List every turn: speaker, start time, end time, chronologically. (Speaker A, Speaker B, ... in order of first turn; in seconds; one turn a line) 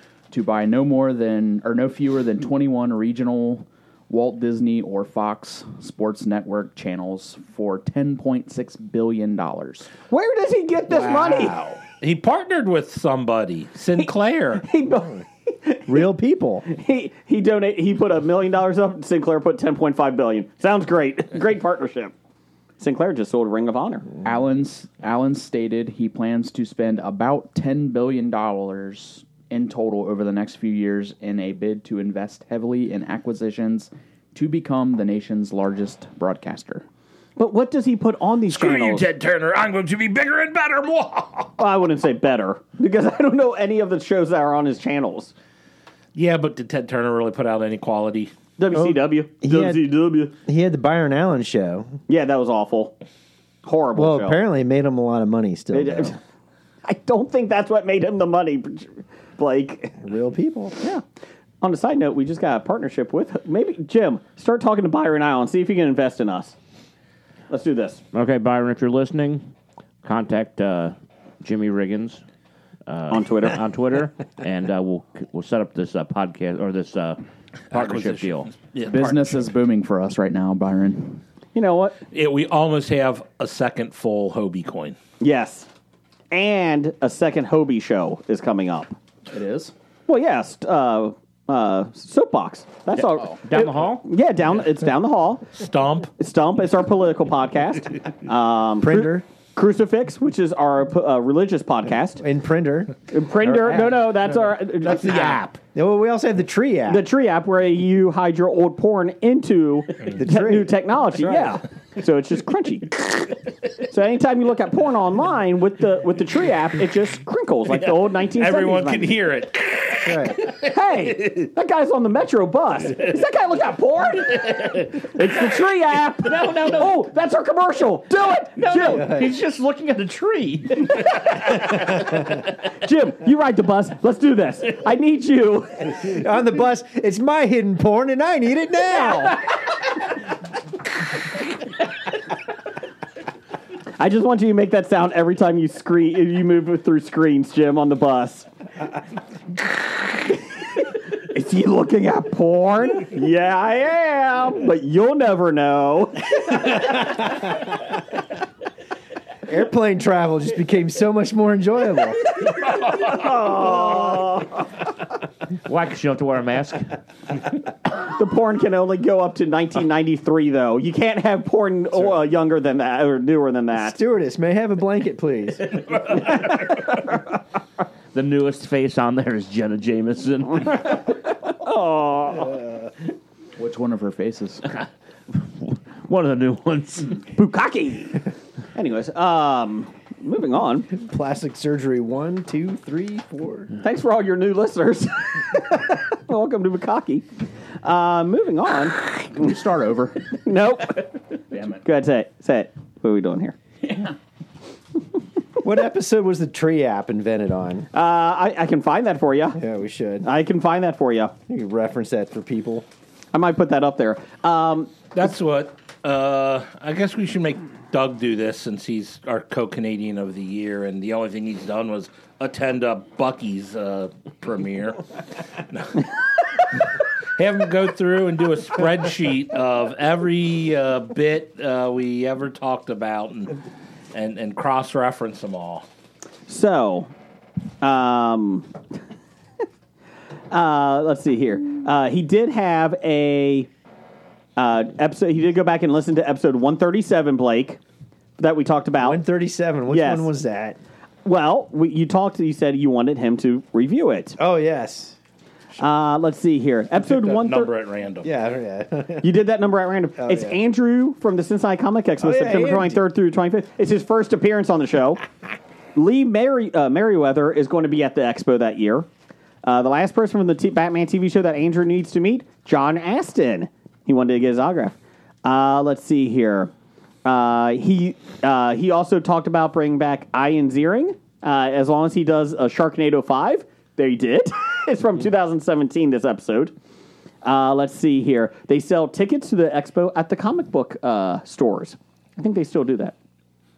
Speaker A: 0.3-9.9
Speaker B: 10.1-11.6
Speaker C: 10.9-14.6
Speaker B: 13.9-16.0
Speaker D: 15.9-16.6
Speaker B: 16.7-22.1
Speaker B: 22.8-24.1
Speaker A: 24.2-36.8
Speaker B: 37.4-39.1
Speaker C: 38.5-41.5
Speaker B: 41.6-45.3
Speaker C: 46.1-48.3
Speaker B: 48.6-50.3
Speaker D: 48.7-49.8
Speaker D: 50.4-51.9
Speaker B: 52.1-53.0
Speaker B: 53.6-54.4
Speaker D: 54.0-56.1
Speaker B: 55.7-56.2
Speaker B: 56.8-60.0
Speaker D: 60.0-60.7
Speaker B: 61.6-66.5
Speaker B: 67.5-68.0
Speaker E: 68.1-69.5
Speaker E: 70.0-72.2
Speaker E: 72.8-77.2
Speaker B: 73.1-73.6
Speaker C: 77.7-79.4
Speaker E: 77.7-78.5
Speaker A: 78.9-81.2
Speaker B: 81.5-82.0
Speaker C: 82.1-85.0
Speaker B: 85.2-85.7
Speaker B: 86.3-89.0
Speaker A: 89.3-89.7
Speaker B: 90.1-95.5
Speaker A: 93.1-93.4
Speaker E: 93.5-94.0
Speaker C: 95.5-96.1
Speaker B: 96.2-102.2
Speaker D: 98.8-99.2
Speaker D: 102.2-104.1
Speaker B: 103.1-105.4
Speaker C: 104.8-105.6
Speaker D: 105.7-107.0
Speaker B: 106.9-119.2
Speaker D: 110.1-111.6
Speaker C: 118.3-120.6
Speaker D: 120.0-120.4
Speaker B: 120.5-129.1
Speaker E: 126.2-127.0
Speaker E: 128.4-131.1
Speaker D: 128.7-129.3
Speaker B: 132.8-136.1
Speaker D: 135.8-139.5
Speaker B: 144.0-148.5
Speaker B: 151.2-157.1
Speaker D: 156.8-157.7
Speaker D: 159.5-162.2
Speaker B: 162.4-164.7
Speaker E: 165.6-167.0
Speaker B: 168.1-174.0
Speaker D: 173.7-175.6
Speaker E: 176.0-176.8
Speaker E: 178.1-180.9
Speaker B: 180.7-182.6
Speaker A: 183.6-184.6
Speaker E: 185.6-187.2
Speaker B: 187.3-190.9
Speaker D: 190.9-193.7
Speaker B: 193.8-197.2
Speaker B: 197.8-199.1
Speaker A: 199.3-200.4
Speaker B: 200.4-201.1
Speaker A: 201.5-201.8
Speaker B: 201.8-203.6
Speaker D: 205.6-207.9
Speaker B: 207.9-209.6
Speaker D: 209.6-210.2
Speaker B: 210.2-211.3
Speaker D: 211.5-212.8
Speaker B: 213.3-214.9
Speaker C: 215.1-225.0
Speaker C: 225.7-233.5
Speaker C: 234.1-235.8
Speaker B: 236.5-237.1
Speaker B: 237.8-238.7
Speaker B: 240.5-243.7
Speaker B: 244.6-247.8
Speaker B: 248.4-249.2
Speaker D: 249.0-250.8
Speaker B: 249.9-250.3
Speaker B: 251.2-254.4
Speaker D: 254.4-255.2
Speaker B: 255.8-257.7
Speaker C: 257.0-258.3
Speaker D: 258.2-259.3
Speaker B: 259.2-265.2
Speaker D: 260.2-260.6
Speaker D: 262.2-263.1
Speaker B: 265.9-269.1
Speaker B: 269.6-276.7
Speaker B: 277.2-286.7
Speaker B: 287.4-293.1